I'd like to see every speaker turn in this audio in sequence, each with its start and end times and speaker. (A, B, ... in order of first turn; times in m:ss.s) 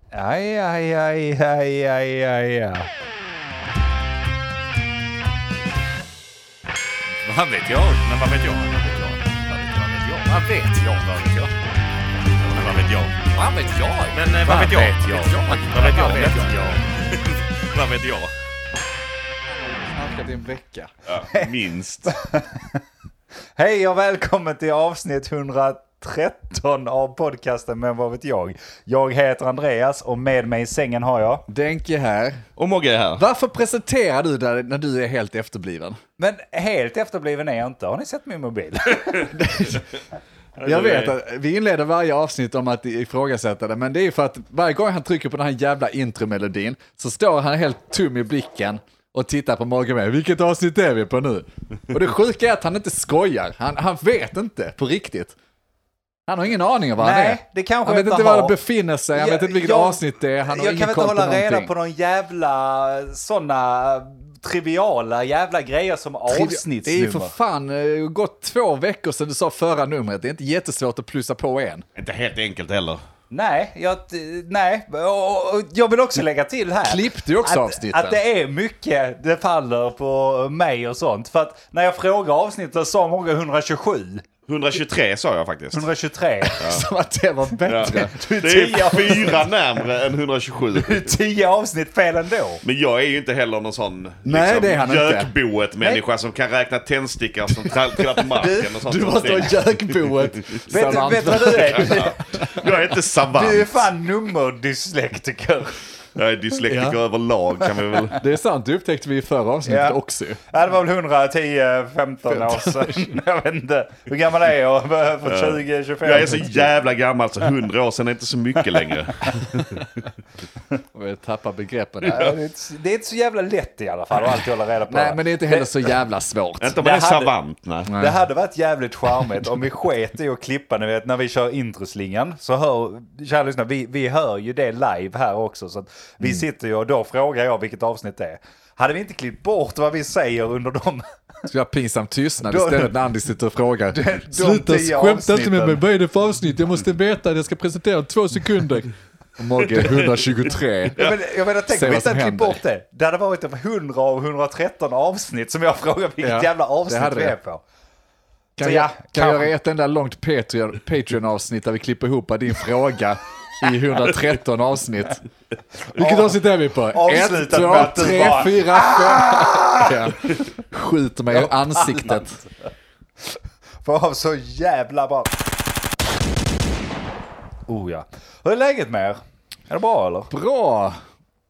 0:00.1-0:02.9 A
0:07.2-0:08.1 A
0:08.0-0:09.0 B
0:08.6-0:11.5 A
0:12.4-0:13.2 B
0:13.2-0:16.8 A
0:14.1-0:18.3 B
0:15.3-0:15.6 C
0:19.7-0:20.9 C
0:21.0-0:22.1 B
0:21.3-0:22.8 A
0:23.6-0:31.5 A
0:31.5-0:32.5 C
0:32.6-0:33.2 B
0:33.2-0:36.0 C
0:36.2-0:39.7 A
0:39.3-0:39.8 C
0:40.6-0:41.2 B
0:40.6-0:55.4 C
0:56.3-1:01.7 C
0:57.0-0:58.6 A
0:59.1-1:07.3 A
1:06.3-1:11.8 C
1:12.0-1:13.0 B
1:13.3-1:24.2 A
1:16.8-1:18.2 C
1:24.5-1:25.9 B
1:25.7-1:26.6 A
1:26.4-1:28.2 C
1:26.6-1:26.8 B
1:27.7-1:31.2 B
1:27.8-1:29.5 A
1:30.7-1:32.6 A
1:32.6-1:43.9 B
1:34.2-1:35.3 C
1:38.4-1:38.8 A
1:38.4-1:42.6 C
1:40.7-1:42.2 A
1:43.3-1:45.8 A
1:46.2-1:48.2 B
1:46.7-1:47.0 C
1:48.1-1:50.4 C
1:49.7-1:56.7 A
1:52.3-1:53.1 C
1:55.2-1:59.9 B
2:00.9-2:02.3 C
2:02.1-2:05.9 A
2:04.9-2:06.8 C
2:06.6-2:07.9 B
2:06.8-2:07.3 A
2:07.9-2:08.2 C
2:08.0-2:21.0 A
2:21.5-2:31.0 C
2:22.4-2:23.0 A
2:23.9-2:25.8 A
2:31.0-2:37.6 A
2:31.7-2:32.6 C
2:36.2-2:37.3 C
2:38.6-2:45.2 C
2:38.6-2:39.5 A
2:45.9-2:50.1 A
2:45.9-2:52.4 C
2:51.3-2:52.5 A
2:53.2-2:55.3 A
2:57.7-3:00.3 A
3:00.3-3:01.0 C